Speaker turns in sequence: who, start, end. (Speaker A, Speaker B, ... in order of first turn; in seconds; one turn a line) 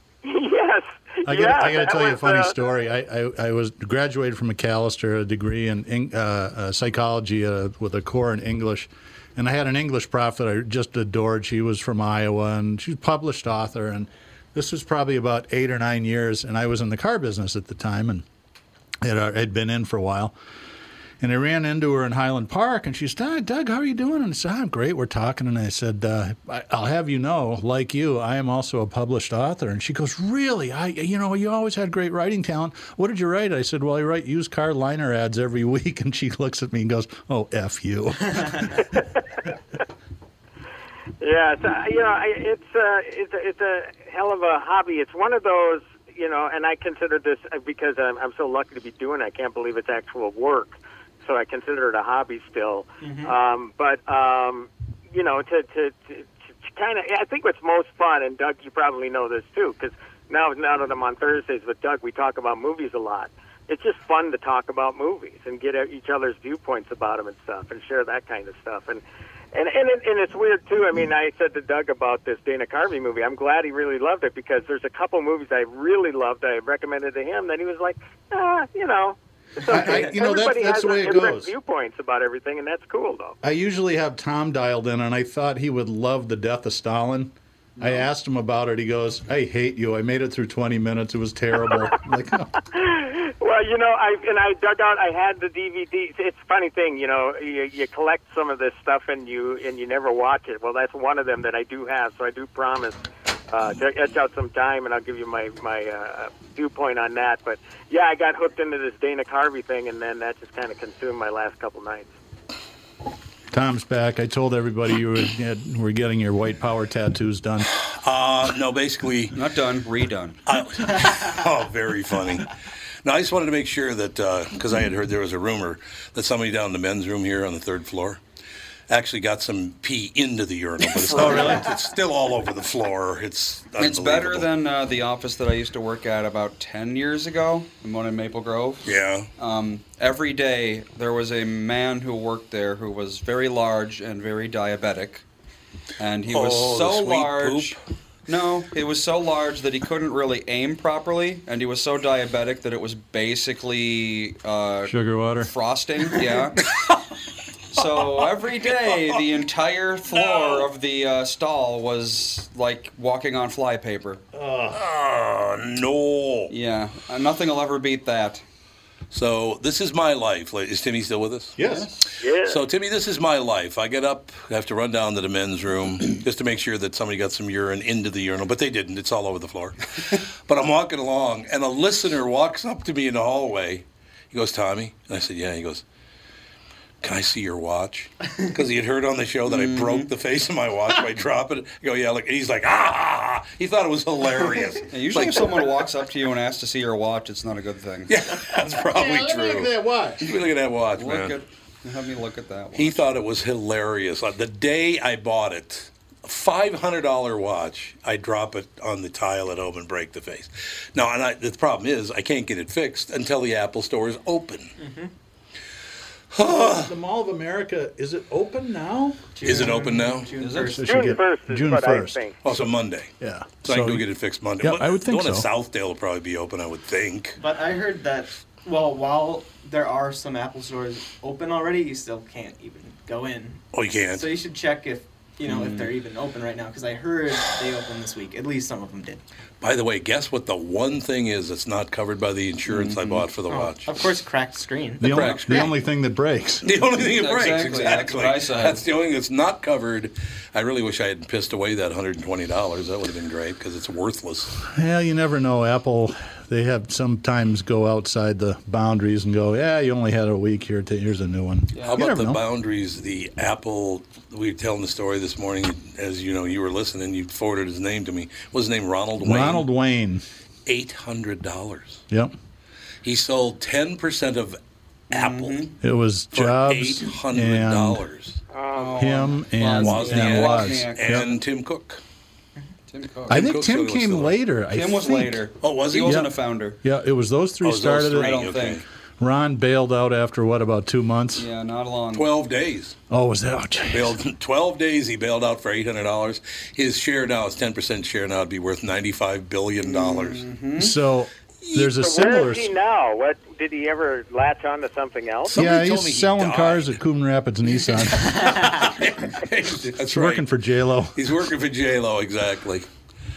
Speaker A: 0.2-2.5
Speaker B: 1.2-18.2
Speaker B: 19.0-20.3
Speaker B: 21.2-38.7
Speaker A: 38.9-39.2
Speaker A: 41.2-69.0
Speaker C: 53.0-53.3
Speaker A: 69.5-83.3
Speaker B: 79.7-81.5
Speaker C: 79.7-80.0
Speaker B: 83.4-92.5
Speaker A: 92.7-112.1
Speaker B: 113.5-117.7
Speaker D: 117.8-119.3
Speaker E: 119.3-120.4
Speaker D: 120.5-122.5
Speaker D: 123.0-128.2
Speaker D: 128.9-134.5
Speaker B: 131.1-131.7
Speaker E: 133.8-145.2
Speaker D: 138.8-139.3
Speaker E: 146.0-156.7
Speaker D: 146.3-147.8
Speaker B: 154.9-155.5
Speaker E: 157.7-164.2
Speaker D: 160.2-160.7
Speaker B: 164.3-164.8
Speaker D: 164.7-166.5
Speaker E: 166.5-168.4
Speaker D: 169.1-171.6
Speaker B: 171.6-171.9
Speaker A: 172.2-172.6
Speaker D: 172.4-185.8
Speaker D: 187.0-195.6
Speaker E: 189.5-190.1
Speaker E: 194.9-198.1
Speaker D: 198.1-201.3
Speaker B: 198.9-200.3
Speaker E: 200.9-203.0
Speaker D: 202.7-214.7
Speaker C: 214.8-215.1
Speaker D: 216.3-216.9
Speaker B: 216.4-219.4
Speaker C: 219.3-221.1
Speaker D: 219.4-220.3
Speaker E: 220.4-220.8
Speaker B: 220.5-222.7
Speaker A: 220.8-222.3
Speaker D: 222.4-223.1
Speaker B: 223.2-224.1
Speaker D: 223.6-227.4
Speaker B: 224.6-225.5
Speaker C: 227.4-239.2
Speaker D: 233.7-234.3
Speaker E: 235.4-235.9
Speaker D: 239.6-243.9
Speaker E: 242.7-243.3
Speaker C: 243.5-245.7
Speaker B: 245.0-246.7
Speaker D: 245.0-245.7
Speaker E: 245.1-245.6
Speaker D: 246.6-254.6
Speaker E: 247.1-248.8
Speaker B: 254.7-262.4
Speaker E: 261.7-262.0
Speaker D: 261.8-269.6
Speaker B: 269.2-270.2
Speaker D: 270.6-272.0
Speaker B: 272.1-272.3
Speaker D: 273.0-274.6
Speaker D: 275.1-275.7
Speaker E: 275.1-275.7
Speaker B: 275.8-278.0
Speaker D: 276.3-278.4
Speaker A: 278.5-278.9
Speaker E: 278.7-281.2
Speaker B: 278.9-281.3
Speaker C: 279.6-280.2
Speaker D: 279.8-282.0
Speaker E: 282.9-283.4
Speaker B: 283.3-285.4
Speaker D: 283.3-284.4
Speaker E: 284.7-286.8
Speaker D: 285.6-286.2
Speaker B: 286.0-286.3
Speaker B: 286.8-288.4
Speaker D: 287.6-288.8
Speaker E: 288.1-288.8
Speaker B: 289.2-291.5
Speaker E: 291.4-292.3
Speaker D: 292.1-292.9
Speaker B: 293.1-294.2
Speaker D: 293.9-300.5
Speaker E: 299.8-300.9
Speaker B: 300.8-302.7
Speaker A: 301.8-305.6
Speaker D: 305.5-307.0
Speaker B: 305.5-308.7
Speaker D: 307.8-310.5
Speaker B: 310.1-311.2
Speaker D: 311.1-312.9